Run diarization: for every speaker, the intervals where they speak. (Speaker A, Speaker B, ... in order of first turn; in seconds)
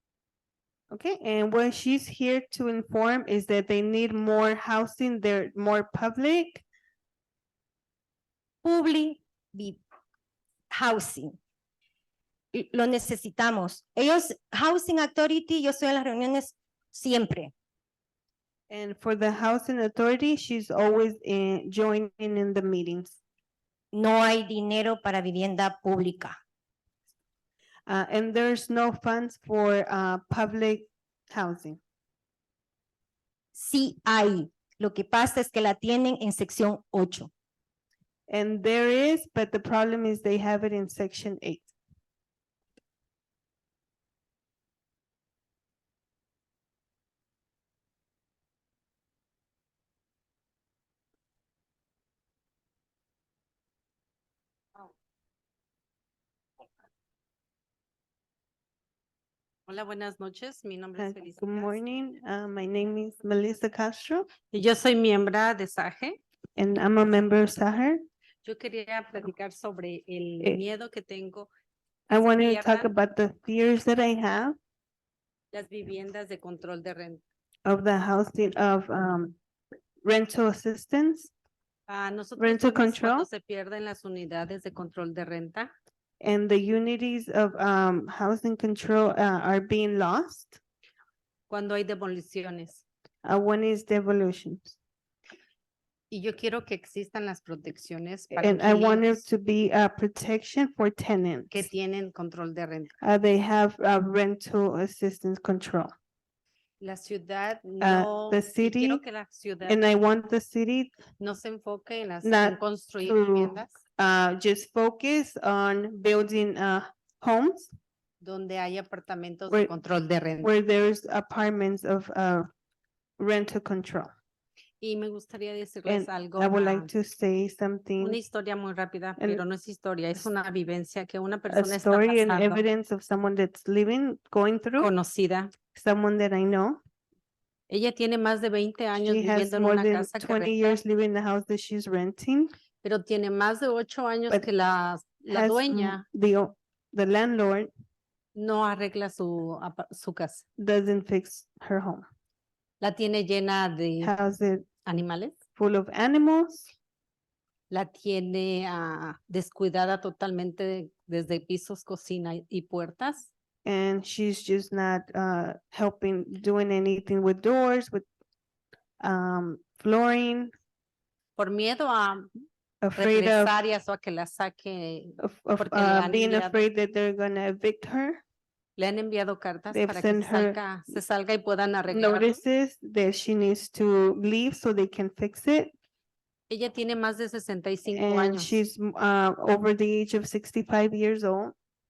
Speaker A: 0.9-6.6, 18.7-23.2, 27.9-31.8, 38.3-41.7, 61.0-64.3, 66.6-68.0, 72.1-74.6, 77.6-79.4, 80.0-81.3, 82.4-83.3, 86.2-90.6, 93.2-94.8, 98.3-101.5, 103.0-105.9, 107.8-109.0, 109.7-110.9, 112.2-117.7, 120.4-122.5, 123.2-124.1, 125.8-128.2, 131.5-134.9, 135.7-136.8, 139.0-142.5, 145.3-147.7, 150.6-152.0, 154.0-154.7, 155.6-156.7, 163.7-168.1, 169.0-170.5, 172.8-173.5, 175.2-178.2, 179.7-180.6, 181.9-185.7, 187.9-191.5
Speaker B: 8.6-9.8, 10.7-11.4, 12.5-17.5, 23.9-26.4, 33.5-37.3
Speaker C: 59.7-61.7, 64.5-66.2, 68.4-71.5, 72.2-72.9, 75.5-77.2, 81.9-85.7, 91.5-92.8, 96.1-99.2, 101.5-102.9, 106.8-109.9, 111.2-113.8, 118.2-120.5, 124.8-126.9, 128.0-132.6, 134.8-135.5, 137.7-140.8, 142.8-146.0, 148.3-150.4, 152.8-154.1, 154.8-155.3, 157.7-163.3, 171.4-172.3, 173.0-176.7, 178.8-182.4, 186.5-188.6